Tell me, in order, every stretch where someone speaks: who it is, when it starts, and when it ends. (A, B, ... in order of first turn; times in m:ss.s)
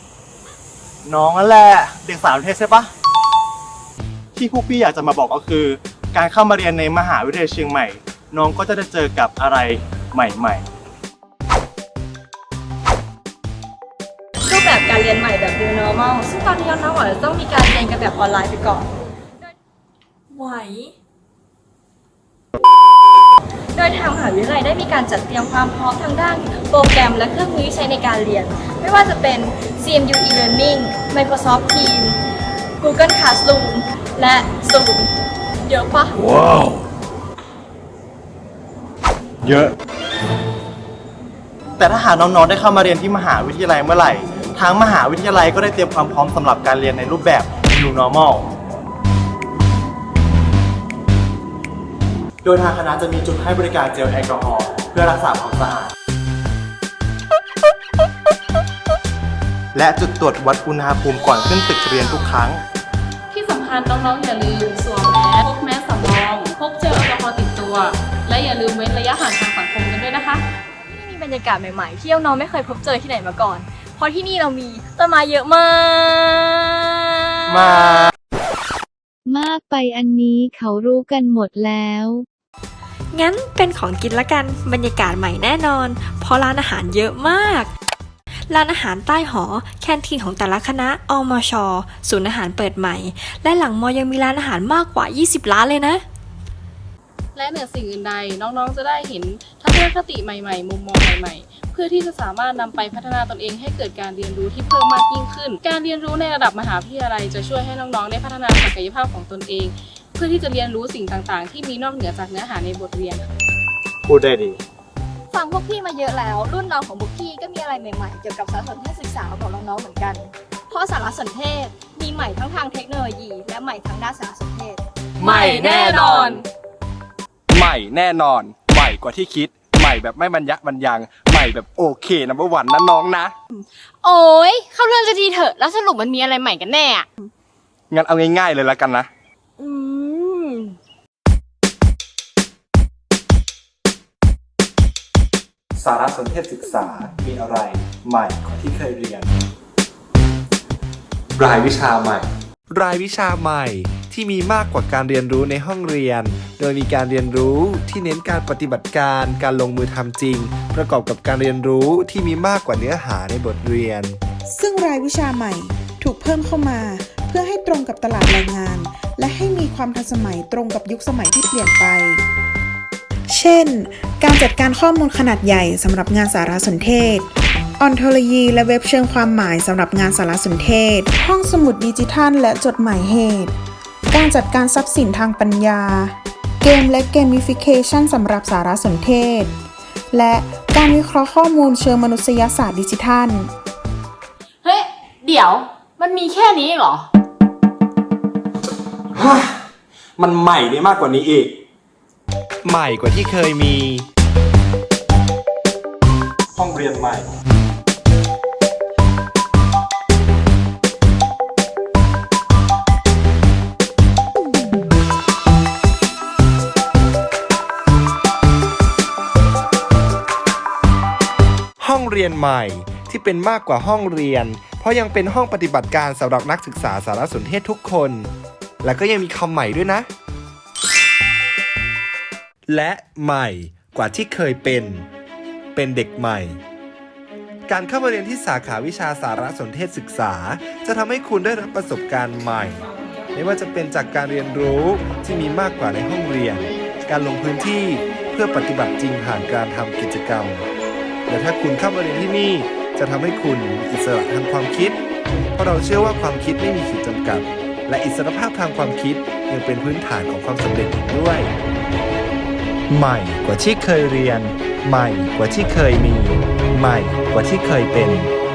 0:01.1-0:02.9 A
0:04.4-0:10.7 A
0:14.5-0:18.8 B
0:20.4-0:20.8 C
0:23.8-0:27.6 B
0:28.3-0:30.2 B
0:31.0-0:31.9 B
0:34.6-0:35.0 B
0:35.7-0:36.0 B
0:39.4-0:39.7 A
0:41.8-0:48.5 A
0:52.4-0:55.9 A
0:59.8-1:02.6 A
1:03.3-1:10.4 D
1:11.0-1:16.7 B
1:17.5-1:18.1 A
1:19.3-1:22.3 E
1:23.1-1:27.7 C
1:28.5-1:36.0 C
1:37.4-1:53.3 D
1:54.1-1:54.6 A
1:56.4-2:00.3 B
2:00.9-2:04.8 B
2:05.2-2:06.4 F
2:05.3-2:06.0 G
2:06.0-2:06.4 D
2:07.5-2:13.3 F
2:14.0-2:17.1 G
2:17.9-2:19.1 F
2:19.6-2:20.6 G
2:25.8-2:29.3 H
2:31.4-2:44.2 H
2:44.5-2:52.2 I
2:53.3-3:03.5 I
3:04.1-3:09.5 I
3:10.1-3:13.5 I
3:14.6-3:17.1 G
3:20.2-3:21.5 H
3:22.6-3:24.1 H
3:26.6-3:27.2 H
3:41.8-3:48.3 H
3:48.8-3:50.1 H
3:52.7-3:55.1 H
3:55.8-3:56.6 H
3:57.7-4:02.8 H
4:03.4-4:10.7 H
4:11.3-4:21.5 H
4:22.9-4:28.3 H